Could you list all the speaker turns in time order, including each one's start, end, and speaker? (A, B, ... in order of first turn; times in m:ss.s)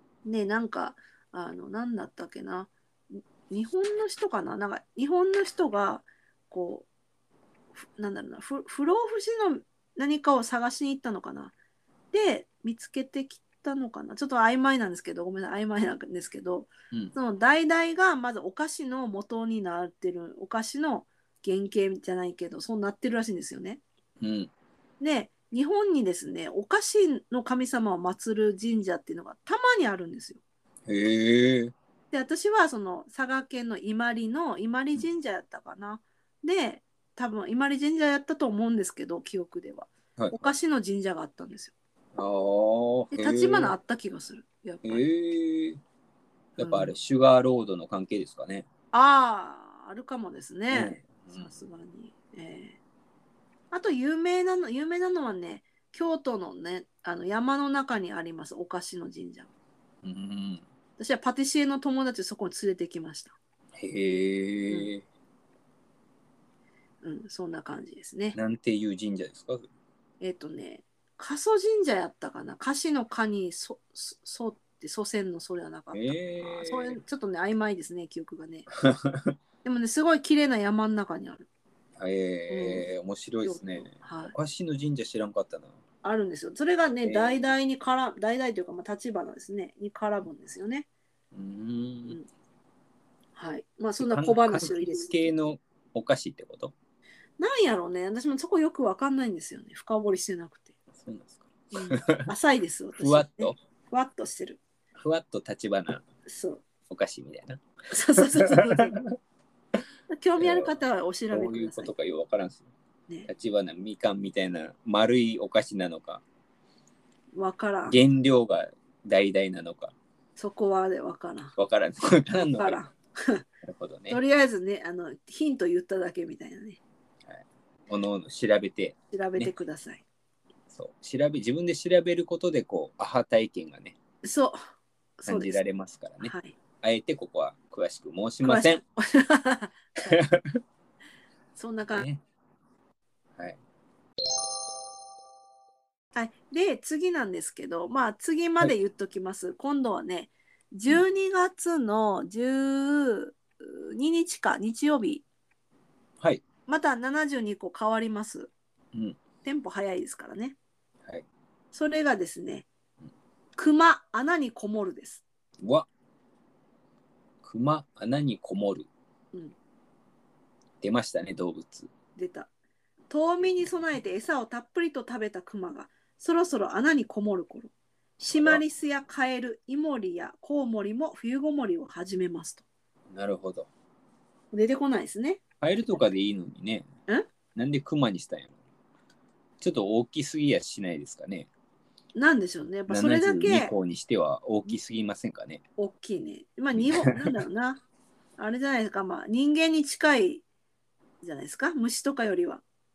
0:00.2-0:06.9 A
0:07.8-0:11.5 A
0:12.1-0:23.8 A
0:24.2-0:24.5 B
0:25.0-0:30.4 A
0:30.9-0:31.7 B
0:32.1-0:41.7 A
0:42.2-0:43.7 B
0:43.1-0:45.0 A
0:44.8-0:45.8 B
0:46.6-0:48.7 B
0:46.6-0:46.9 A
0:48.9-0:52.8 A
0:50.7-0:51.6 B
0:53.7-0:59.5 A
1:00.0-1:00.6 B
1:01.0-1:03.4 A
1:03.8-1:05.0 B
1:07.0-1:08.4 A
1:08.3-1:09.7 B
1:10.2-1:18.7 A
1:15.9-1:17.0 B
1:18.8-1:19.4 B
1:19.6-1:21.5 A
1:22.0-1:25.8 B
1:22.5-1:22.9 A
1:23.4-1:24.3 A
1:26.0-1:30.9 A
1:27.0-1:27.4 B
1:31.3-1:32.2 B
1:33.4-1:35.3 A
1:34.0-1:36.7 B
1:37.4-1:40.7 A
1:41.0-1:42.3 B
1:41.7-1:44.6 A
1:43.0-1:43.6 B
1:45.0-1:46.0 B
1:46.3-1:46.6 A
1:46.9-1:47.6 B
1:47.9-1:49.0 A
1:48.2-1:49.0 B
1:50.1-1:51.9 A
1:50.4-1:50.7 B
1:51.3-1:52.7 B
1:53.3-1:56.2 B
1:57.3-1:58.0 A
1:57.9-1:59.9 B
2:00.4-2:01.6 A
2:01.6-2:02.8 B
2:02.3-2:03.4 A
2:03.6-2:04.2 B
2:04.1-2:06.8 A
2:07.3-2:09.5 B
2:09.1-2:10.0 A
2:10.7-2:14.0 B
2:14.2-2:14.6 A
2:15.2-2:15.6 A
2:15.3-2:18.8 B
2:16.2-2:16.6 A
2:18.4-2:20.2 A
2:20.1-2:20.6 B
2:21.6-2:22.1 A
2:22.0-2:22.2 B
2:26.1-2:35.2 A
2:36.7-2:38.5 A
2:38.9-2:39.2 B
2:39.4-2:40.6 A
2:41.7-2:42.7 A
2:43.6-2:45.2 A
2:45.6-2:45.9 B
2:47.4-2:48.9 B
2:50.8-2:51.9 B
2:52.2-2:52.5 A
2:53.1-3:02.6 A
2:58.3-2:58.6 B
3:03.1-3:03.7 B
3:04.5-3:05.4 A
3:05.6-3:06.9 B
3:07.6-3:08.5 B
3:09.6-3:11.5 B
3:12.1-3:13.7 A
3:12.9-3:15.6 B
3:15.8-3:17.8 A
3:16.8-3:17.3 B
3:18.4-3:20.4 A
3:21.2-3:22.6 A